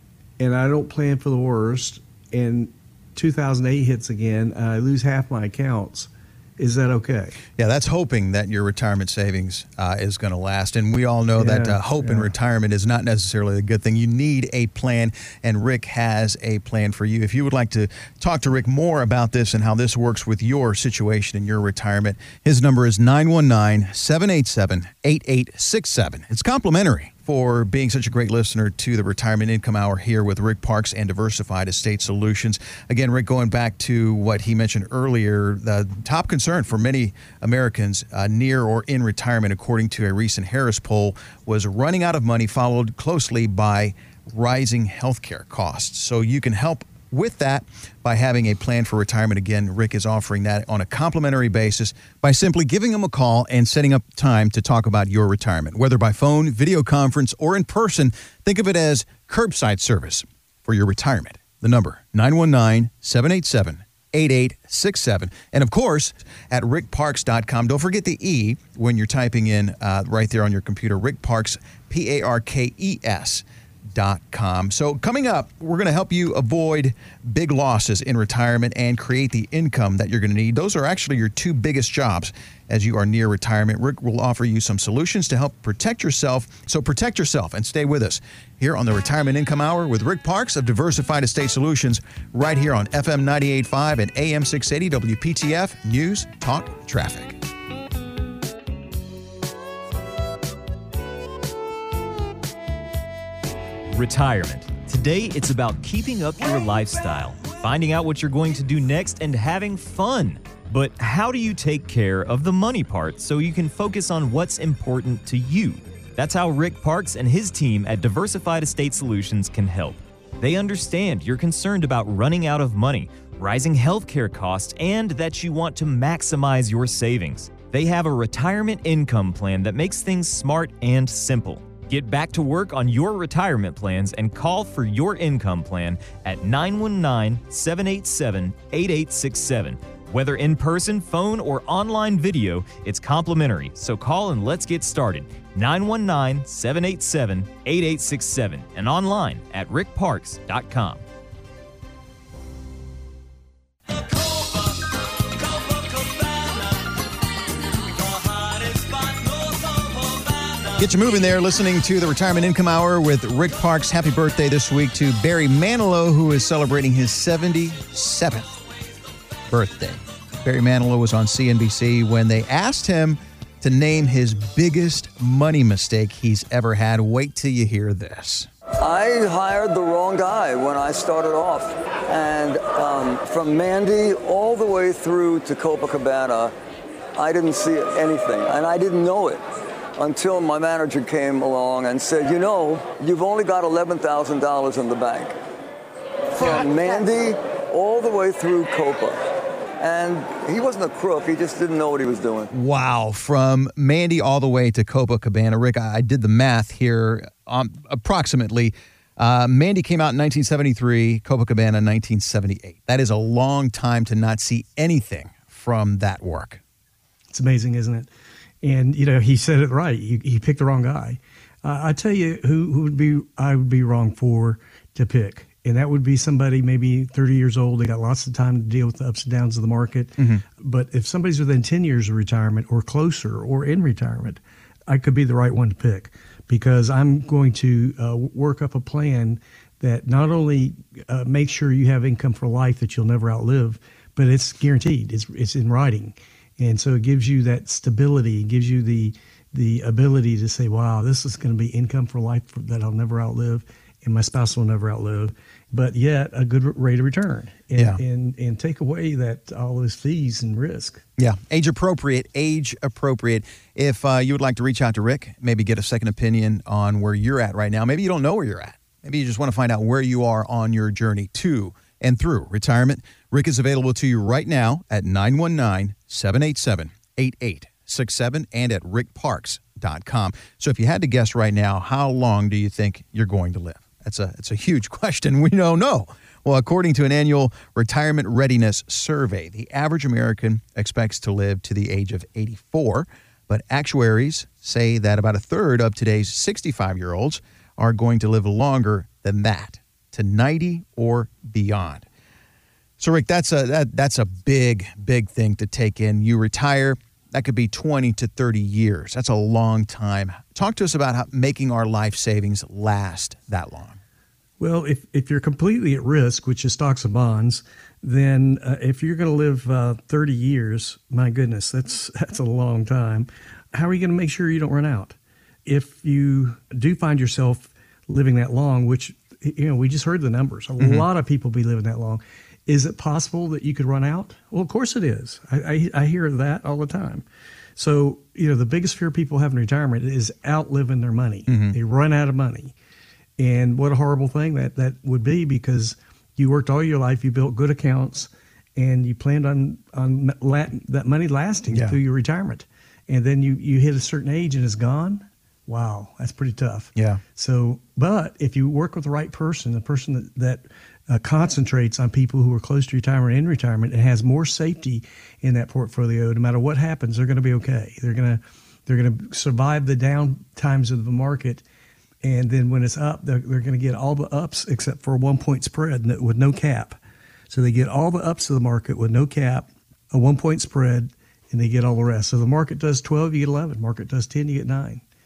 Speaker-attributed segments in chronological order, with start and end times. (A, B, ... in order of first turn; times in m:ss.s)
0:00.4-0:07.4 A
0:07.5-1:37.4 B
0:11.4-0:12.3 A
1:43.9-2:31.0 C
2:33.9-2:37.0 D
2:37.8-2:40.8 D
2:40.8-2:48.5 B
2:49.5-2:58.5 B
2:58.8-3:06.5 D
3:07.2-3:09.4 D
3:10.0-3:15.4 D
3:16.4-3:19.2 D
3:19.8-3:22.5 D
3:22.5-3:36.6 B
3:37.3-3:38.1 A
3:38.6-4:21.0 A
3:50.2-3:50.4 B
4:17.8-4:18.0 B
4:21.2-5:02.1 B
5:03.0-5:14.0 B
5:14.6-5:37.2 A
5:30.8-5:31.1 B
5:37.8-5:42.7 A
5:41.5-5:41.8 B
5:43.4-6:11.6 A
5:51.7-5:52.0 B
5:57.0-5:57.2 B
6:12.2-6:17.0 A
6:17.5-6:25.0 A